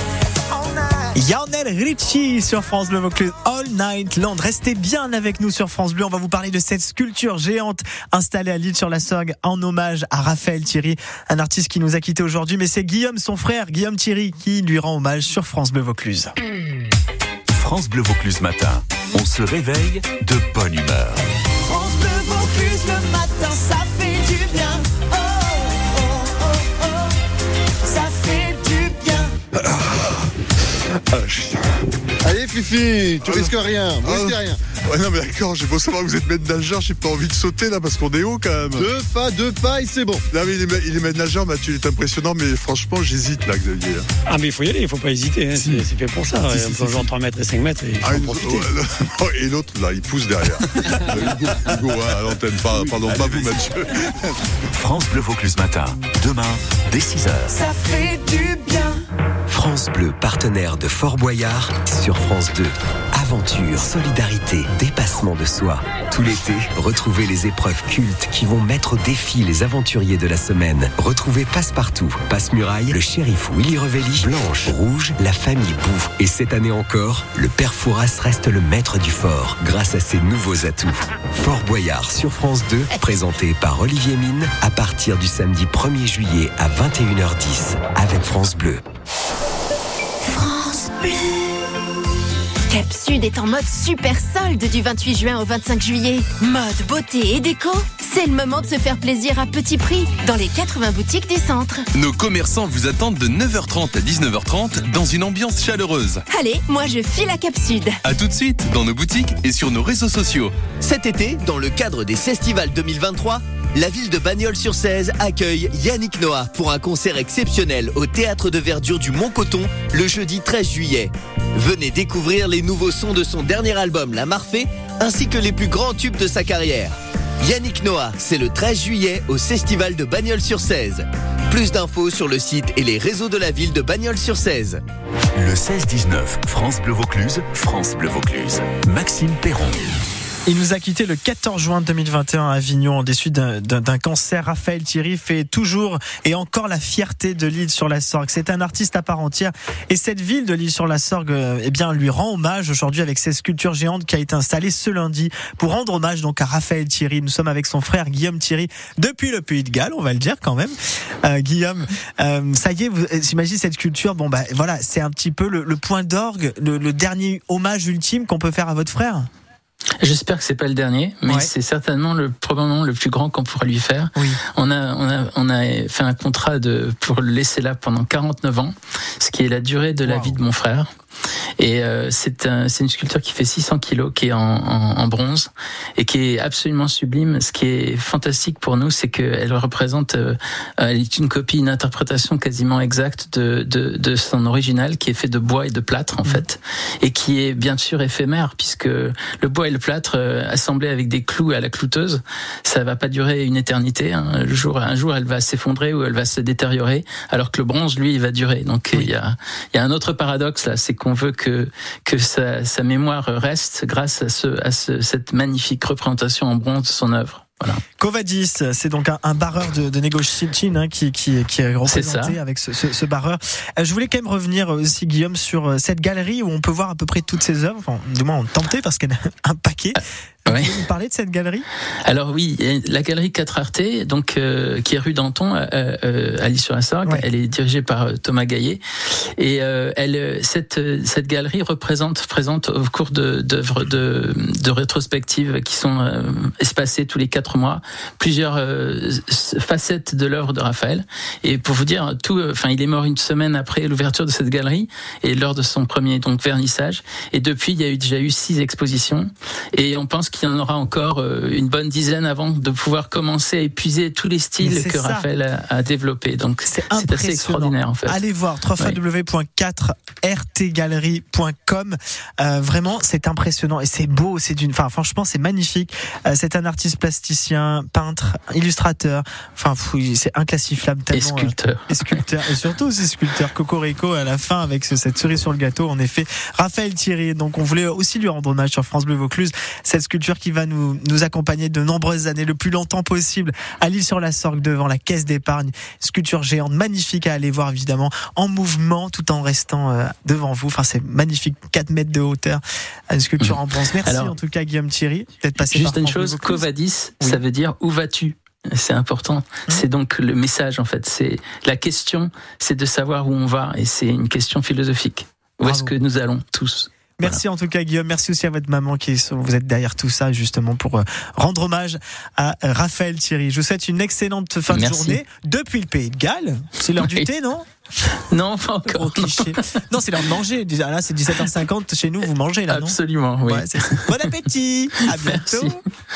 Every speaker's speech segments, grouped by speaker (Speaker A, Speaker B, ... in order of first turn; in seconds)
Speaker A: 0.5-1.2, 21.7-27.0, 27.8-29.3
Speaker B: 1.1-16.3, 140.4-169.3, 171.2-171.5, 180.0-180.4, 218.0-231.7, 264.6-265.3, 266.6-306.7, 315.6-315.9, 317.2-327.6, 328.9-335.8
Speaker C: 17.5-21.2, 53.1-53.6, 54.7-57.6, 135.3-139.8
Speaker D: 31.1-31.6, 33.2-38.9, 40.3-44.0, 48.0-54.3
Speaker E: 32.2-34.6, 38.7-40.3
Speaker F: 44.3-48.7
Speaker G: 59.5-88.8
Speaker H: 90.3-91.6, 92.7-101.8, 106.3-108.0
Speaker I: 101.9-106.2, 108.0-110.5
Speaker J: 110.8-126.9, 127.4-134.8
Speaker K: 170.0-180.9, 181.6-217.8, 221.9-222.4, 230.5-230.8, 232.0-238.8, 239.4-268.2, 281.1-282.2, 303.4-304.3, 305.7-317.4, 324.7-325.2, 327.0-327.3, 328.1-329.7, 332.7-334.3, 335.2-335.8